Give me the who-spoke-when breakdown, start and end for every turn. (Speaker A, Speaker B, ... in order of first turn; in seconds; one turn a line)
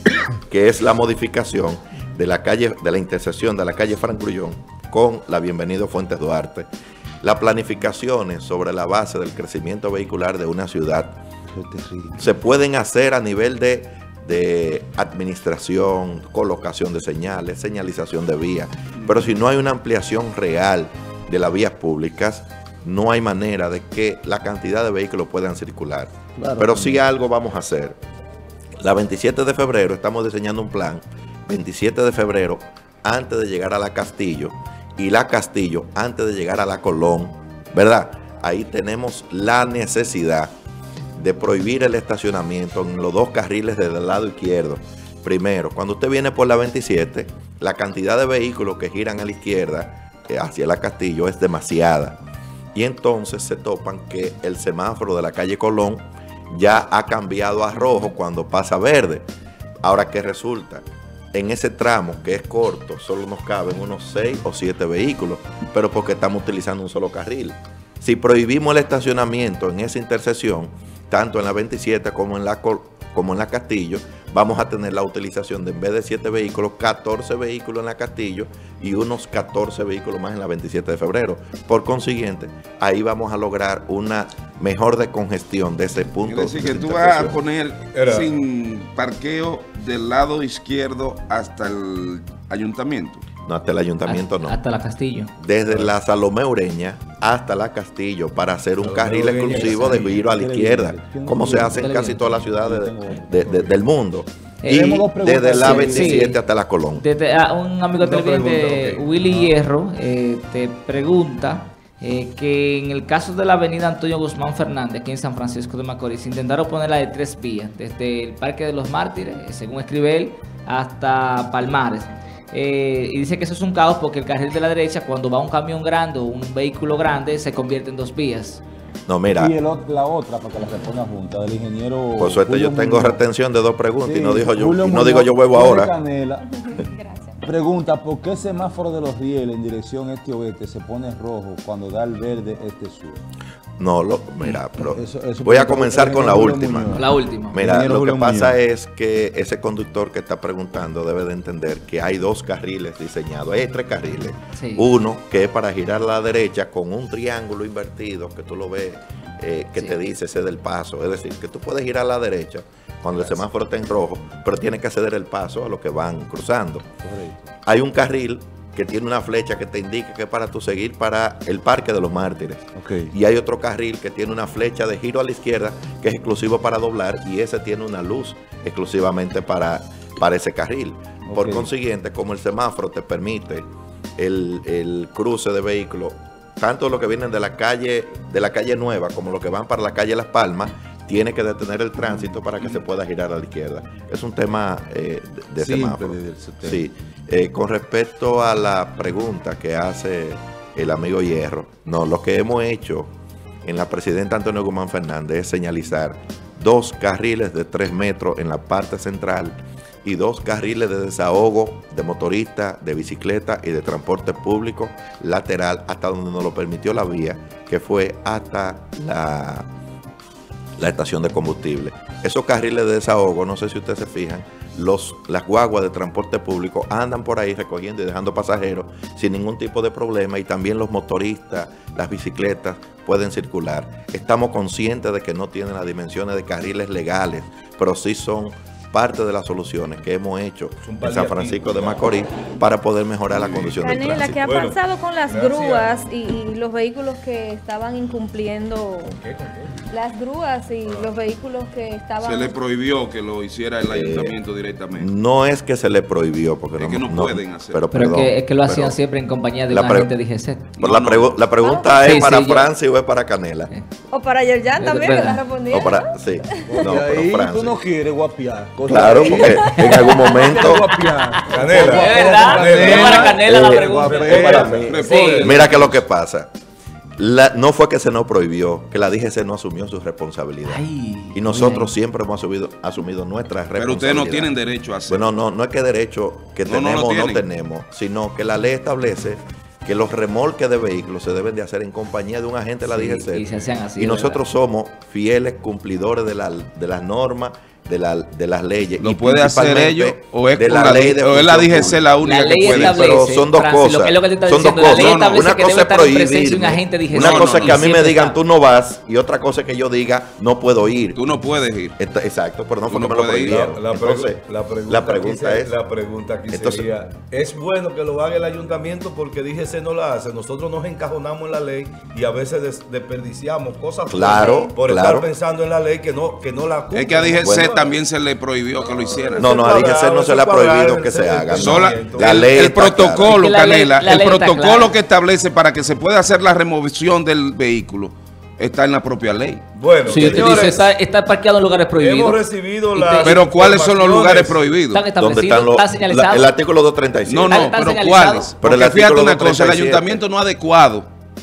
Speaker A: 0.5-6.7
Speaker A: 7.2-11.2
Speaker B: 11.5-12.3
Speaker A: 12.2-28.0
Speaker C: 19.0-19.2
Speaker B: 26.4-27.0
Speaker A: 28.8-40.5
Speaker A: 41.1-52.2
Speaker A: 52.7-59.3
Speaker A: 59.8-87.4
Speaker C: 86.2-93.2
Speaker D: 87.9-88.3
Speaker A: 93.4-94.6
Speaker E: 94.0-95.3
Speaker A: 95.4-107.0
Speaker D: 98.8-100.2
Speaker B: 99.4-103.8
Speaker E: 99.6-100.1
Speaker E: 101.8-102.2
Speaker E: 104.6-106.4
Speaker B: 104.7-106.3
Speaker E: 107.0-128.6
Speaker D: 108.0-109.5
Speaker A: 129.1-129.5
Speaker B: 129.2-133.2
Speaker A: 132.2-135.9
Speaker B: 134.0-136.6
Speaker F: 136.5-137.4
Speaker B: 137.4-143.2
Speaker A: 143.8-166.9
Speaker B: 144.8-147.1
Speaker E: 146.9-147.6
Speaker B: 147.6-148.6
Speaker E: 154.6-154.9
Speaker B: 167.0-167.5
Speaker A: 167.6-203.1
Speaker B: 172.8-173.1
Speaker B: 181.2-181.7
Speaker B: 195.6-196.8
Speaker A: 203.6-219.7
Speaker A: 220.8-244.4
Speaker D: 240.8-242.1
Speaker D: 243.3-243.8
Speaker F: 243.7-249.2
Speaker D: 244.3-245.9
Speaker D: 249.1-249.8
Speaker F: 249.9-252.6
Speaker C: 252.2-255.1
Speaker A: 253.9-254.3
Speaker A: 254.9-259.0
Speaker C: 256.8-257.8
Speaker E: 257.9-260.7
Speaker A: 259.7-260.1
Speaker C: 260.8-261.4
Speaker A: 260.8-263.7
Speaker F: 261.6-262.0
Speaker E: 262.0-262.7
Speaker F: 264.1-266.8
Speaker E: 264.8-265.4
Speaker A: 265.7-267.8
Speaker B: 266.6-275.1
Speaker A: 268.9-270.9
Speaker F: 270.1-270.4
Speaker E: 271.3-275.9
Speaker D: 271.5-275.5
Speaker A: 273.4-274.9
Speaker C: 274.9-275.6
Speaker A: 275.4-276.5
Speaker A: 277.2-284.5
Speaker E: 280.6-281.9
Speaker C: 283.8-285.3
Speaker A: 285.1-293.4
Speaker C: 286.6-287.4
Speaker E: 292.9-294.4
Speaker A: 294.0-302.0
Speaker C: 299.0-303.2
Speaker E: 302.2-308.4
Speaker A: 302.7-311.2
Speaker C: 304.9-305.4
Speaker C: 307.1-307.9
Speaker C: 311.1-312.0
Speaker A: 312.0-315.7
Speaker C: 312.9-313.6
Speaker D: 313.5-327.9
Speaker A: 316.5-316.9
Speaker A: 324.1-325.3
Speaker C: 326.9-329.5
Speaker A: 327.4-327.8
Speaker D: 328.9-332.5
Speaker A: 329.4-333.4
Speaker C: 331.5-339.6
Speaker E: 333.2-334.9
Speaker D: 339.8-340.9
Speaker E: 340.1-342.4
Speaker C: 340.2-340.7
Speaker D: 342.0-344.6
Speaker E: 342.9-343.4
Speaker C: 343.2-345.1
Speaker E: 344.9-346.5
Speaker A: 345.1-347.6
Speaker C: 347.3-351.1
Speaker E: 347.5-348.6
Speaker A: 348.6-350.2